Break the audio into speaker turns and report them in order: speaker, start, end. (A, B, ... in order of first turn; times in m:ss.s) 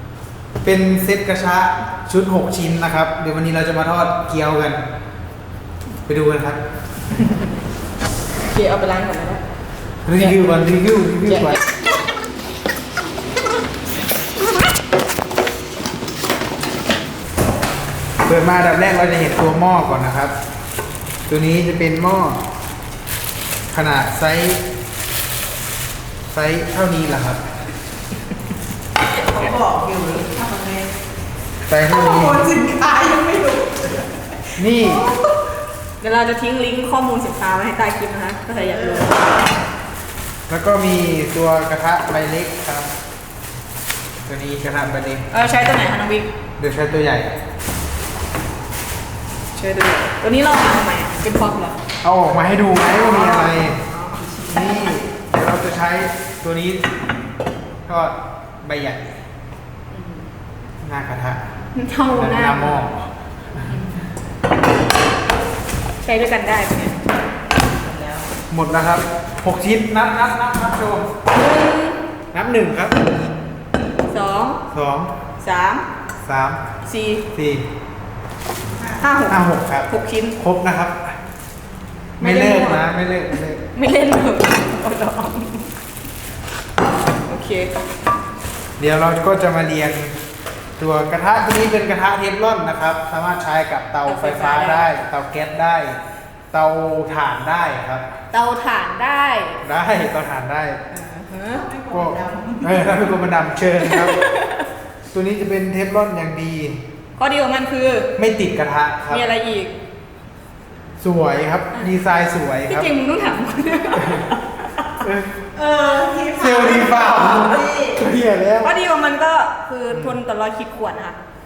0:00.6-0:04.8 A
0:06.1-0:06.6 A
0:08.4-0:09.4 B
0:10.1-0:11.6 A
0:11.3-0:11.6 B
0:18.2-0:20.3 A
0:21.3-0:22.4 A
0:23.7-0:24.6 A
0:26.3-0:27.4 A
0:29.3-0:29.6 B
0:29.6-0:30.9 C
0:31.7-0:32.5 A
0:32.4-0:33.9 C
0:34.6-0:35.1 A
0:36.0-0:39.5 B
0:40.5-0:42.9 A
0:44.2-0:45.3 A
0:45.3-0:46.3 B
0:46.6-0:47.4 A
0:49.6-0:51.8 B
0:52.0-0:53.8 A
0:52.9-0:55.1 B
0:54.5-0:56.9 A
0:57.9-0:59.2 A
0:59.9-1:00.3 B
1:00.8-1:01.5 A
1:01.7-1:02.9 B
1:02.1-1:03.7 A
1:03.7-1:04.0 B
1:06.0-1:07.0 B
1:08.5-1:11.1 A
1:11.3-1:12.0 B
1:12.3-1:13.1 A
1:14.1-1:14.6 B
1:14.7-1:15.1 A
1:15.4-1:15.8 B
1:16.2-1:16.6 A
1:16.8-1:17.2 B
1:17.3-1:17.7 A
1:18.8-1:20.4 B
1:19.2-1:21.2 A
1:22.2-1:22.9 B
1:22.2-1:23.6 A
1:23.7-1:25.7 B
1:27.2-1:27.7 B
1:28.8-1:30.1 A
1:30.8-1:36.0 A
1:34.0-1:34.9 B
1:36.5-1:38.1 A
1:38.3-1:39.6 B
1:39.6-1:40.8 A
1:40.9-1:41.8 B
1:41.9-1:44.2 A
1:43.8-1:44.7 B
1:45.1-1:46.8 A
1:47.2-1:48.1 B
1:48.2-1:49.3 A
1:49.1-1:49.7 B
1:51.0-1:52.9 A
1:52.7-1:54.9 B
1:54.0-1:54.3 A
1:55.0-1:55.6 A
1:55.8-1:56.2 B
1:56.2-1:58.7 A
1:57.1-1:57.9 B
1:58.6-2:01.2 B
1:59.9-2:00.2 A